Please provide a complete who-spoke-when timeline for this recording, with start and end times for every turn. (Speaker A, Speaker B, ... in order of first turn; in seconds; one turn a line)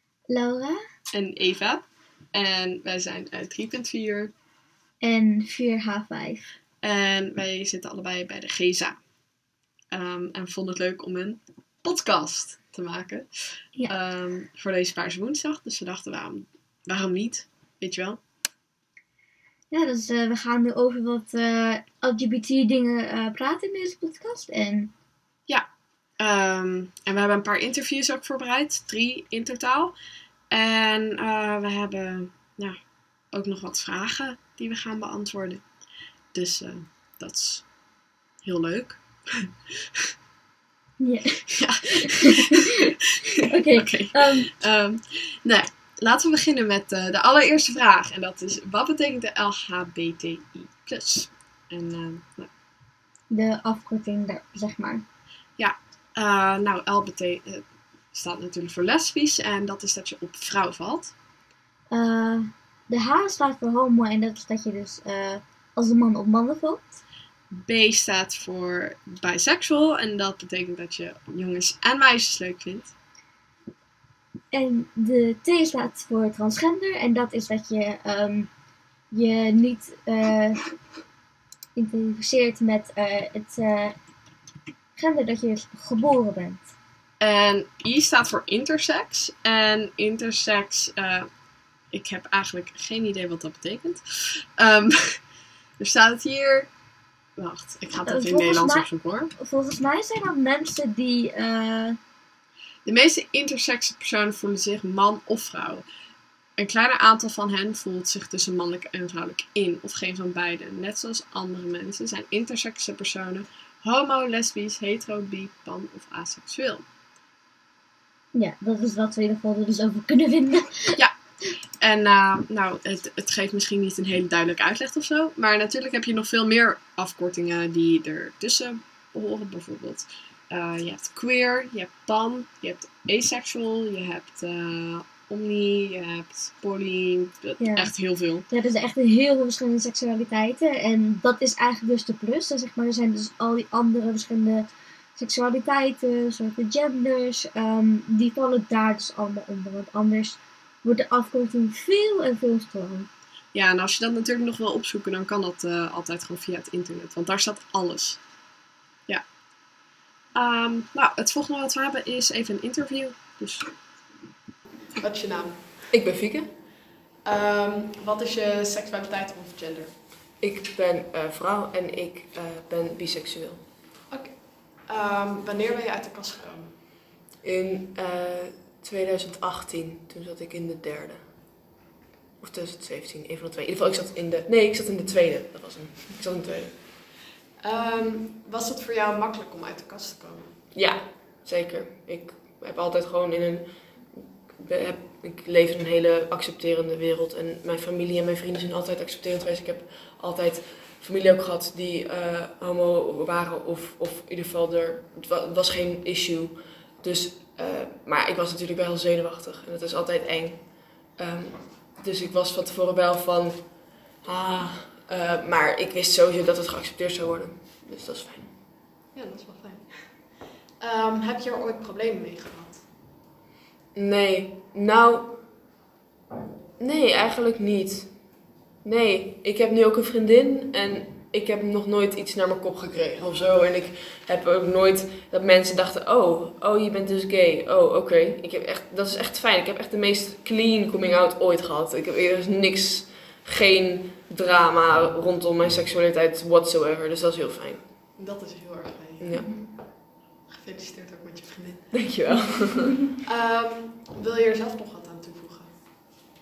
Speaker A: 0.3-0.8
Speaker B: 1.1-4.3
Speaker A: 5.0-6.5
Speaker B: 6.8-9.0
Speaker B: 9.9-18.2
Speaker A: 19.7-24.9
Speaker B: 26.2-29.9
Speaker B: 30.5-32.8
Speaker B: 33.3-35.6
Speaker B: 36.3-37.7
Speaker B: 38.4-39.5
Speaker A: 41.0-42.7
Speaker B: 41.6-42.9
Speaker A: 43.5-44.5
Speaker B: 43.5-52.5
Speaker A: 53.3-55.0
Speaker B: 55.6-61.1
Speaker A: 61.9-67.0
Speaker B: 67.5-72.9
Speaker A: 74.5-78.5
Speaker A: 79.1-80.6
Speaker A: 81.8-84.0
Speaker A: 85.0-86.7
Speaker B: 87.2-91.3
Speaker B: 91.9-95.2
Speaker B: 95.8-96.7
Speaker B: 97.4-99.3
Speaker A: 98.1-102.0
Speaker B: 102.8-105.8
Speaker B: 106.6-116.9
Speaker A: 118.3-121.0
Speaker B: 121.8-138.5
Speaker A: 137.6-137.9
Speaker A: 138.5-153.1
Speaker B: 153.5-158.2
Speaker B: 160.3-163.7
Speaker B: 165.0-165.7
Speaker C: 165.9-166.6
Speaker B: 167.2-169.9
Speaker C: 170.4-173.7
Speaker B: 174.1-176.7
Speaker C: 177.4-181.7
Speaker C: 182.4-187.0
Speaker B: 187.6-190.5
Speaker C: 190.7-218.6
Speaker B: 219.2-220.3
Speaker B: 220.8-222.8
Speaker C: 223.9-225.7
Speaker C: 226.8-247.9
Speaker B: 248.2-249.2
Speaker C: 249.2-249.6
Speaker A: 249.3-249.7
Speaker B: 250.5-251.8
Speaker C: 251.9-253.1
Speaker B: 253.3-255.7